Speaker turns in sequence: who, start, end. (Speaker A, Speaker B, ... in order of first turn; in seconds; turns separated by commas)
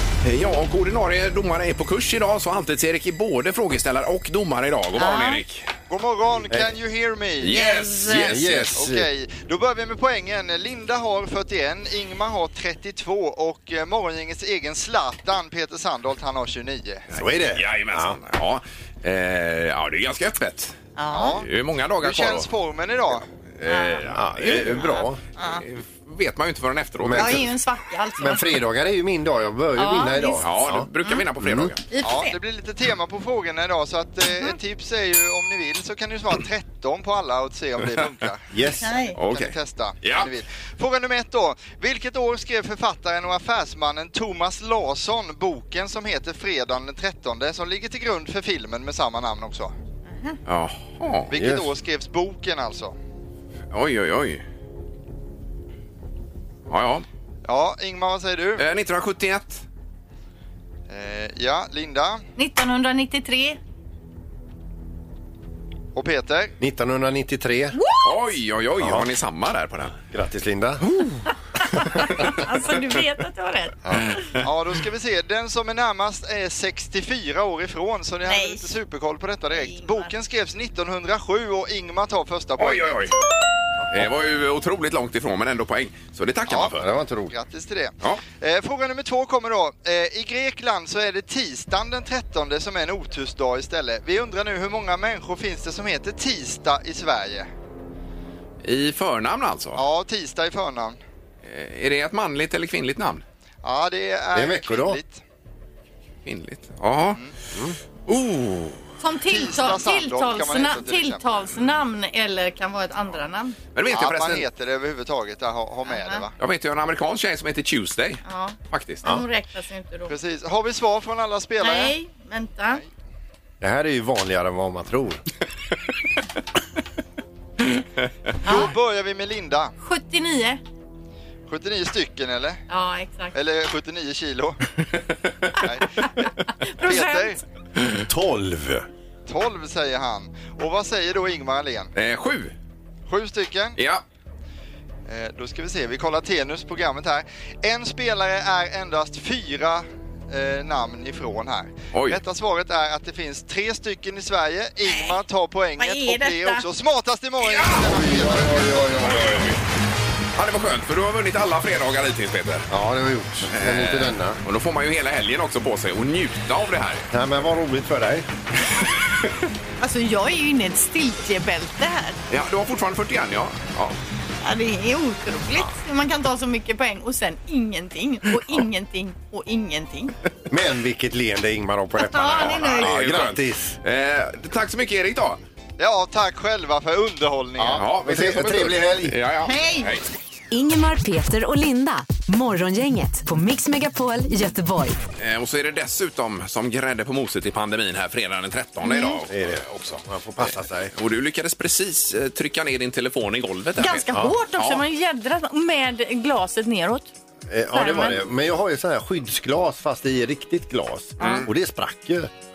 Speaker A: 0.2-5.7, Speaker B: 5.0-5.4, Speaker C: 5.9-7.5, Speaker D: 6.5-6.7, Speaker A: 7.4-8.8, Speaker B: 7.5-8.3, Speaker D: 8.2-9.1, Speaker C: 8.8-17.1, Speaker D: 17.1-18.2, Speaker A: 17.5-20.8, Speaker B: 21.0-21.4, Speaker C: 21.1-21.5, Speaker A: 21.3-22.5, Speaker C: 22.0-23.2, Speaker A: 23.6-25.0, Speaker B: 23.6-24.0, Speaker D: 24.1-25.2, Speaker B: 24.8-25.6, Speaker A: 25.6-27.4, Speaker D: 27.0-27.5, Speaker B: 27.2-28.4, Speaker D: 28.2-30.9, Speaker B: 29.8-30.4, Speaker A: 30.4-31.8, Speaker D: 31.4-31.7, Speaker B: 31.9-32.4, Speaker C: 32.0-38.4, Speaker D: 38.5-38.9, Speaker B: 38.8-39.2, Speaker A: 39.1-40.3, Speaker C: 39.2-49.7, Speaker A: 50.5-51.3, Speaker C: 51.3-53.0, Speaker D: 51.3-51.7, Speaker A: 53.7-54.4, Speaker A: 56.7-57.0, Speaker C: 57.5-58.6, Speaker A: 58.6-59.6, Speaker C: 60.9-62.2, Speaker B: 62.4-63.6, Speaker C: 65.9-66.5, Speaker D: 66.6-67.8, Speaker B: 67.8-68.1, Speaker A: 68.0-70.0, Speaker D: 68.8-69.1, Speaker D: 70.1-70.8, Speaker B: 71.7-73.7, Speaker A: 74.1-74.4, Speaker C: 74.4-83.1, Speaker B: 78.3-78.7, Speaker B: 79.5-80.1, Speaker A: 82.6-83.1, Speaker A: 83.9-86.8, Speaker C: 86.5-86.7, Speaker D: 86.7-87.3, Speaker C: 87.3-97.5, Speaker A: 98.6-99.8, Speaker C: 99.8-101.0, Speaker A: 101.4-103.2, Speaker C: 103.6-105.2, Speaker D: 104.3-105.0, Speaker A: 106.2-107.2, Speaker A: 108.1-108.8, Speaker B: 109.0-113.5, Speaker C: 109.3-111.2, Speaker A: 113.7-114.5, Speaker C: 113.9-116.3, Speaker B: 115.8-116.2, Speaker A: 116.4-119.1, Speaker B: 118.2-120.1, Speaker C: 120.1-121.9, Speaker B: 121.6-122.8, Speaker D: 123.6-125.2, Speaker B: 128.4-128.7, Speaker C: 128.4-129.7, Speaker B: 129.8-130.6, Speaker C: 131.5-132.6, Speaker B: 132.7-133.3, Speaker C: 133.3-134.6, Speaker C: 135.6-136.2, Speaker B: 136.6-137.4, Speaker C: 136.8-137.4, Speaker D: 138.1-138.8, Speaker C: 139.3-141.9, Speaker A: 141.9-142.5, Speaker C: 143.1-143.8, Speaker A: 143.8-144.0, Speaker C: 145.1-159.1, Speaker A: 151.9-152.2, Speaker B: 154.8-155.2, Speaker B: 155.8-156.6, Speaker A: 157.4-159.6, Speaker D: 158.0-159.2, Speaker A: 160.3-162.7, Speaker D: 162.7-164.4, Speaker A: 163.5-167.1, Speaker D: 167.1-168.3, Speaker B: 169.8-172.2, Speaker A: 172.3-174.0, Speaker B: 174.4-180.1, Speaker D: 180.5-183.8, Speaker B: 182.0-182.9, Speaker A: 182.3-185.4, Speaker C: 185.8-187.8, Speaker D: 187.6-189.2, Speaker A: 187.7-190.1, Speaker B: 189.4-189.9, Speaker E: 190.5-195.0, Speaker A: 195.2-204.8, Speaker B: 198.8-199.2, Speaker D: 199.3-200.9, Speaker B: 203.8-207.1, Speaker D: 207.5-212.3, Speaker B: 207.7-208.2, Speaker A: 211.2-211.5, Speaker B: 211.2-211.5